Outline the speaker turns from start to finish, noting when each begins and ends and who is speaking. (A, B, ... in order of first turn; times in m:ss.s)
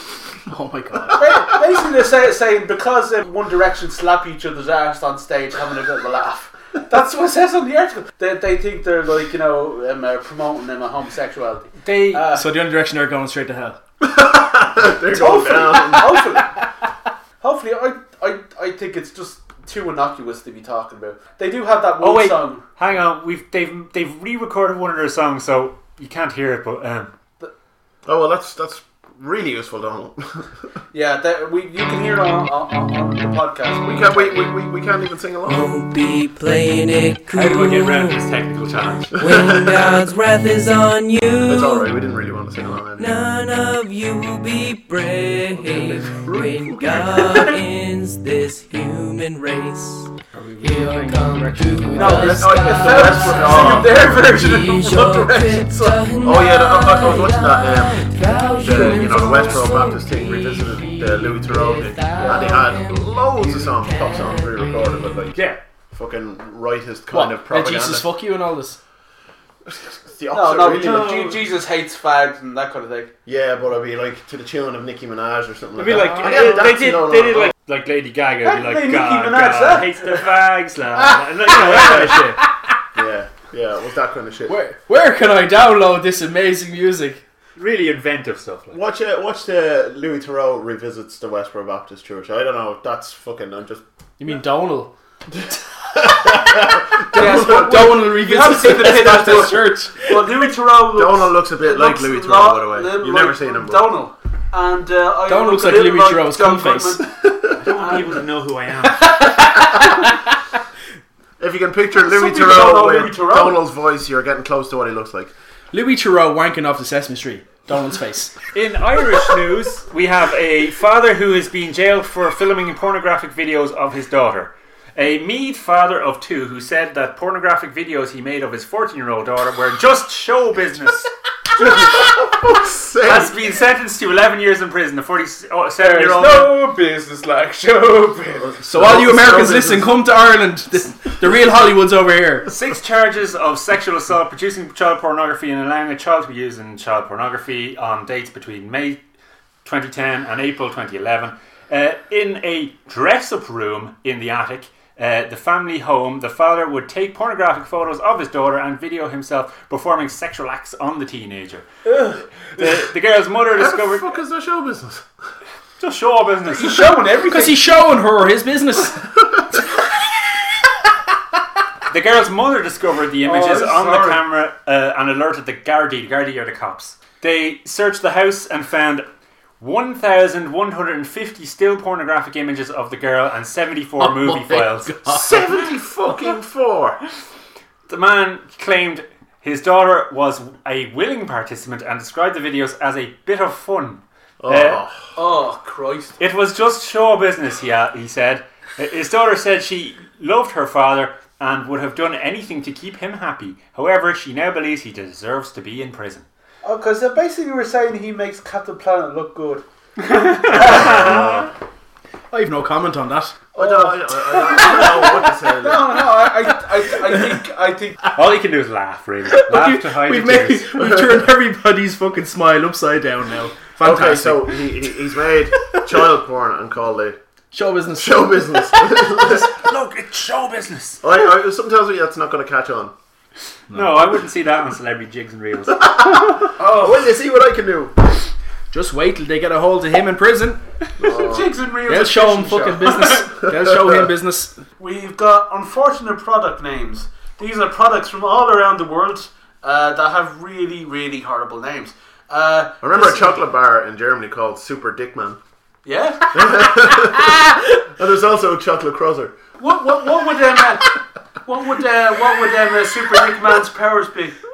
0:00.4-0:01.5 A
0:01.1-0:12.5 B
0:11.9-0:13.8 A
0:14.0-0:16.3 C
0:15.1-0:16.6 B
0:17.4-0:22.6 B
0:22.0-0:27.1 D
0:28.0-0:30.5 C
0:30.9-0:34.6 B
0:33.8-0:35.8 C
0:35.5-0:38.2 E
0:37.3-0:39.1 D
0:39.1-0:41.9 E
0:39.2-0:39.6 C
0:41.4-0:43.2 C
0:43.0-1:05.1 E
0:45.6-0:47.5 C
0:50.3-0:52.7 A
0:52.0-0:56.1 B
0:52.1-0:54.3 C
0:56.2-1:05.4 C
1:02.2-1:02.6 B
1:05.3-1:05.6 D
1:05.9-1:08.1 C
1:07.1-1:08.8 A
1:09.7-1:11.4 C
1:10.3-1:13.1 B
1:13.2-1:17.5 C
1:15.8-1:22.4 D
1:15.8-1:16.6 A
1:18.4-1:20.3 B
1:21.7-1:22.4 A
1:21.8-1:22.1 C
1:22.9-1:24.6 C
1:24.5-1:27.2 A
1:27.6-1:28.8 D
1:28.7-1:33.8 C
1:34.2-1:34.9 A
1:35.9-1:40.5 A
1:36.0-1:37.8 C
1:37.1-1:47.0 B
1:40.9-1:43.9 C
1:45.3-1:47.0 A
1:47.5-1:49.1 D
1:47.7-1:48.2 B
1:49.4-1:49.8 A
1:51.4-1:55.3 C
1:52.0-1:53.6 B
1:55.7-1:58.3 A
1:58.5-2:12.1 D
2:11.6-2:13.3 C
2:13.0-2:16.6 D
2:15.8-2:18.6 B
2:18.6-2:22.5 A
2:18.7-2:20.0 C
2:22.5-2:29.0 D
2:29.6-2:41.6 D
2:41.9-2:42.2 B
2:42.5-2:44.1 D
2:43.5-2:45.0 C
2:45.8-2:47.0 D
2:46.5-2:47.7 B
2:47.2-2:49.2 A
2:51.9-2:59.0 D
2:53.2-2:54.2 B
2:59.6-3:04.9 D
3:04.0-3:05.6 A
3:05.1-3:07.0 C
3:07.9-3:14.8 D
3:14.4-3:15.2 C
3:15.2-3:16.2 B
3:16.2-3:26.2 D
3:26.6-3:30.8 B
3:30.0-3:31.5 D
3:30.5-3:31.5 C
3:32.3-3:33.4 A
3:33.5-3:36.0 C
3:33.6-3:38.0 B
3:38.1-3:40.8 D
3:39.3-3:45.0 A
3:43.8-3:47.2 C
3:47.5-3:49.0 A
3:48.0-3:49.5 C
3:49.3-3:51.0 D
3:51.0-3:52.9 C
3:53.7-3:54.0 A
3:53.7-3:55.9 D
3:55.9-3:57.9 C
3:56.6-3:57.0 B
3:58.7-4:00.6 A
4:01.0-4:01.5 C
4:01.1-4:03.4 B
4:01.9-4:04.6 A
4:04.8-4:13.4 B
4:12.8-4:15.4 C
4:15.8-4:16.9 B
4:16.3-4:17.4 C
4:18.0-4:19.3 C
4:19.6-4:24.4 B